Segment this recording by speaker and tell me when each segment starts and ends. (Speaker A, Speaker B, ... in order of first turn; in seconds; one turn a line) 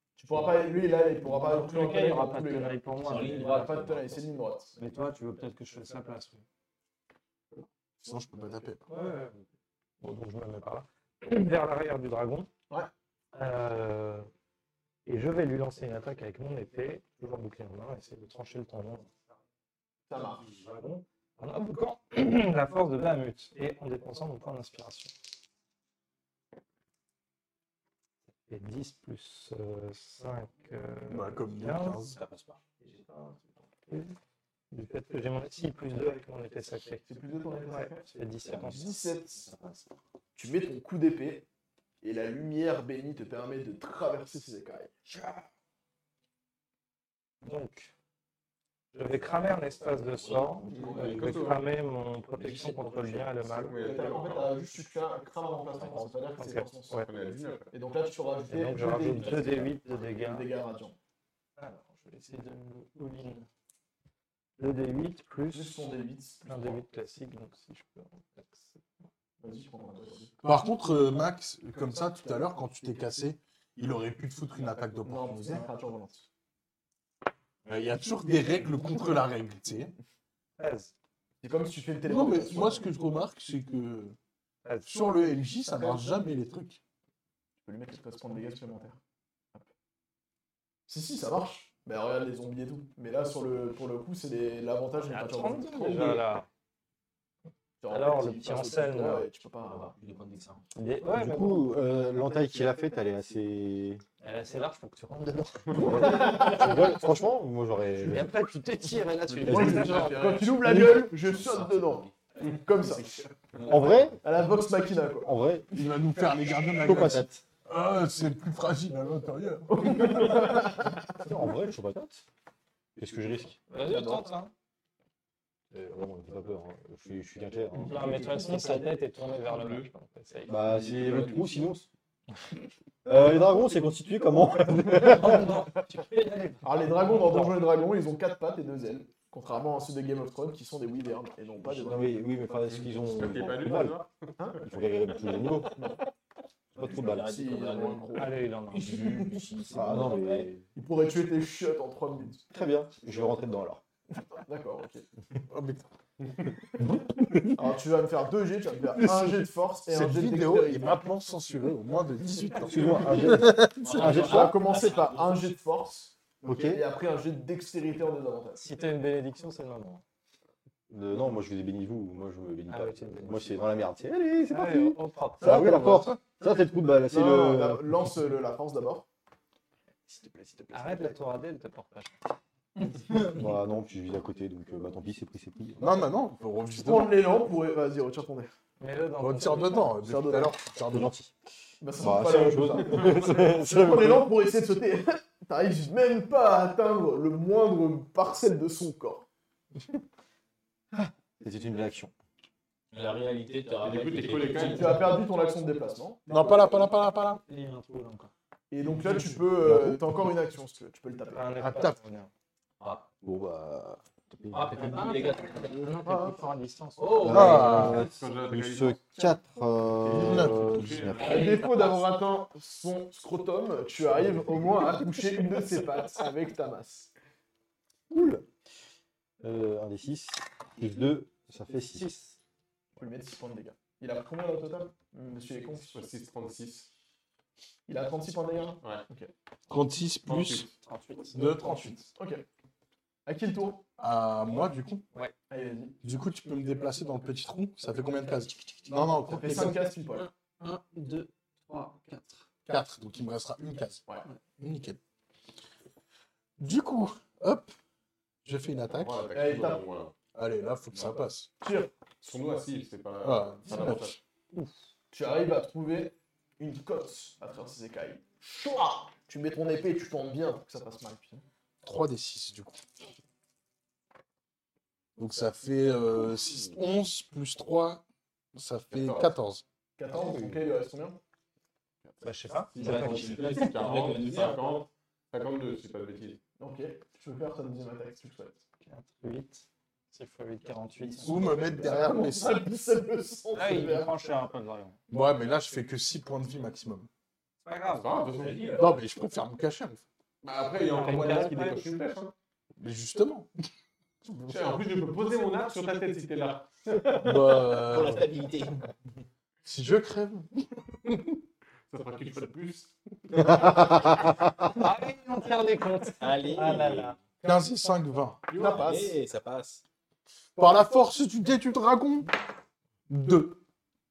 Speaker A: 0.2-4.8
Speaker B: 1.3-3.7
Speaker C: 3.0-4.2
Speaker B: 4.8-6.5
Speaker D: 8.0-8.8
Speaker B: 8.9-9.4
Speaker B: 10.0-12.5
Speaker B: 13.3-14.3
Speaker B: 15.1-19.2
Speaker A: 20.1-20.5
Speaker B: 20.2-25.1
Speaker B: 28.5-32.1
Speaker D: 31.1-32.2
Speaker C: 32.1-33.4
Speaker B: 33.9-34.2
Speaker B: 34.7-37.1
Speaker A: 37.1-39.5
Speaker B: 37.7-39.0
Speaker C: 39.4-39.8
Speaker A: 40.4-41.5
Speaker A: 42.0-44.9
Speaker B: 47.4-47.9
Speaker B: 48.9-53.8
Speaker C: 50.1-51.6
Speaker E: 50.8-51.6
Speaker C: 52.4-53.7
Speaker E: 53.6-54.6
Speaker A: 53.8-57.1
Speaker B: 55.8-57.1
Speaker E: 57.0-57.7
Speaker A: 57.7-61.0
Speaker B: 58.5-60.5
Speaker C: 59.0-59.7
Speaker B: 61.6-63.5
Speaker B: 64.6-65.9
Speaker A: 65.5-66.8
Speaker B: 66.5-68.8
Speaker A: 69.4-70.3
Speaker D: 70.4-75.7
Speaker A: 75.0-76.3
Speaker D: 77.7-79.9
Speaker B: 80.6-80.9
Speaker A: 81.4-82.9
Speaker D: 82.0-84.2
Speaker B: 84.7-84.9
Speaker D: 84.9-86.8
Speaker A: 85.7-86.2
Speaker A: 87.6-89.0
Speaker A: 90.9-96.2
Speaker B: 95.0-96.5
Speaker A: 97.8-100.0
Speaker B: 97.9-99.3
Speaker C: 99.6-100.6
Speaker B: 100.8-101.7
Speaker F: 101.1-104.0
Speaker B: 104.2-106.9
Speaker F: 105.8-108.3
Speaker A: 106.0-106.5
Speaker B: 108.0-110.5
Speaker A: 109.4-113.2
Speaker F: 109.5-109.9
Speaker E: 109.5-110.1
Speaker F: 110.7-110.9
Speaker C: 111.1-112.2
Speaker C: 113.6-114.1
Speaker F: 113.7-114.2
Speaker A: 114.2-115.3
Speaker F: 115.2-115.7
Speaker D: 115.7-120.8
Speaker F: 116.8-117.4
Speaker A: 119.8-120.7
Speaker F: 121.2-122.2
Speaker F: 123.0-123.6
Speaker B: 123.7-124.5
Speaker A: 123.9-124.2
Speaker F: 125.7-128.2
Speaker B: 127.8-130.8
Speaker C: 128.2-128.6
Speaker E: 129.5-129.9
Speaker F: 130.5-131.9
Speaker C: 130.7-131.5
Speaker F: 133.1-135.5
Speaker B: 134.9-137.6
Speaker A: 136.6-142.2
Speaker F: 141.6-144.0
Speaker E: 142.7-144.6
Speaker F: 144.6-145.8
Speaker F: 146.8-147.4
Speaker C: 146.8-150.6
Speaker A: 146.8-149.3
Speaker B: 148.2-149.0
Speaker F: 149.7-150.6
Speaker A: 150.7-152.4
Speaker F: 152.5-153.8
Speaker A: 154.2-155.1
Speaker D: 155.5-155.9
Speaker A: 157.6-160.9
Speaker D: 159.0-164.0
Speaker F: 162.6-164.6
Speaker C: 163.8-165.6
Speaker A: 163.9-168.7
Speaker F: 166.4-166.8
Speaker B: 168.6-170.0
Speaker F: 170.9-178.1
Speaker B: 172.7-173.7
Speaker B: 174.5-176.1
Speaker A: 175.4-176.0
Speaker D: 175.5-175.9
Speaker A: 177.1-179.1
Speaker A: 180.1-181.1
Speaker B: 180.7-182.2
Speaker F: 183.1-186.0
Speaker D: 185.8-187.1
Speaker A: 186.8-188.5
Speaker B: 188.8-189.9
Speaker D: 189.2-191.1
Speaker A: 190.0-190.6
Speaker F: 190.9-191.3
Speaker A: 191.8-199.3
Speaker F: 191.9-194.3
Speaker F: 200.9-202.1
Speaker C: 202.9-205.2
Speaker E: 203.8-205.2
Speaker A: 204.5-206.8
Speaker D: 206.3-207.4
Speaker B: 207.4-208.3
Speaker A: 208.7-211.5
Speaker D: 209.1-210.0
Speaker F: 209.7-209.9
Speaker B: 211.3-212.3
Speaker D: 211.6-212.0
Speaker C: 212.8-213.1
Speaker F: 213.2-214.7
Speaker C: 214.5-215.9
Speaker B: 214.7-218.0
Speaker A: 216.1-216.4
Speaker C: 217.0-218.1
Speaker F: 217.2-221.2
Speaker D: 217.2-218.1
Speaker E: 217.9-219.0
Speaker E: 220.0-221.4
Speaker D: 220.1-221.1
Speaker A: 221.2-227.1
Speaker C: 221.2-221.8
Speaker B: 221.2-222.0
Speaker F: 228.1-228.4
Speaker F: 229.4-232.4
Speaker A: 233.0-236.0
Speaker E: 235.9-236.9
Speaker A: 237.9-239.3
Speaker D: 239.7-240.7
Speaker E: 240.3-240.7
Speaker B: 240.8-241.6
Speaker D: 241.3-242.1
Speaker A: 241.6-242.4
Speaker A: 243.2-243.9
Speaker D: 244.0-245.1
Speaker A: 245.5-246.0
Speaker D: 246.0-249.8
Speaker A: 248.9-250.3
Speaker B: 250.2-252.4
Speaker D: 252.7-254.0
Speaker D: 254.6-255.0
Speaker D: 256.6-257.7
Speaker D: 258.4-259.2
Speaker E: 258.9-260.1
Speaker A: 259.3-259.8
Speaker D: 260.3-261.5
Speaker A: 261.6-261.9
Speaker E: 262.2-264.2
Speaker D: 263.2-264.1
Speaker A: 265.1-271.4
Speaker D: 271.8-272.8
Speaker D: 275.2-278.0
Speaker D: 278.6-279.6
Speaker E: 278.9-279.3
Speaker A: 280.0-281.2
Speaker B: 282.2-283.7
Speaker E: 282.7-286.4
Speaker C: 282.8-284.7
Speaker A: 286.6-288.6
Speaker B: 288.9-291.9
Speaker D: 291.2-292.6
Speaker A: 291.8-294.1
Speaker B: 293.5-295.0
Speaker D: 295.1-297.1
Speaker B: 297.6-298.9
Speaker E: 297.9-298.9
Speaker D: 298.8-300.1
Speaker E: 300.4-302.3
Speaker B: 300.8-301.9
Speaker D: 302.8-303.5
Speaker E: 304.4-307.4
Speaker D: 307.2-308.3
Speaker C: 307.7-308.9
Speaker D: 309.6-311.3
Speaker E: 311.9-313.8
Speaker B: 314.8-317.2
Speaker C: 316.2-317.3
Speaker D: 317.4-318.5
Speaker E: 318.5-318.9
Speaker C: 318.6-319.8
Speaker A: 318.6-319.2
Speaker D: 320.6-322.3
Speaker D: 323.1-323.6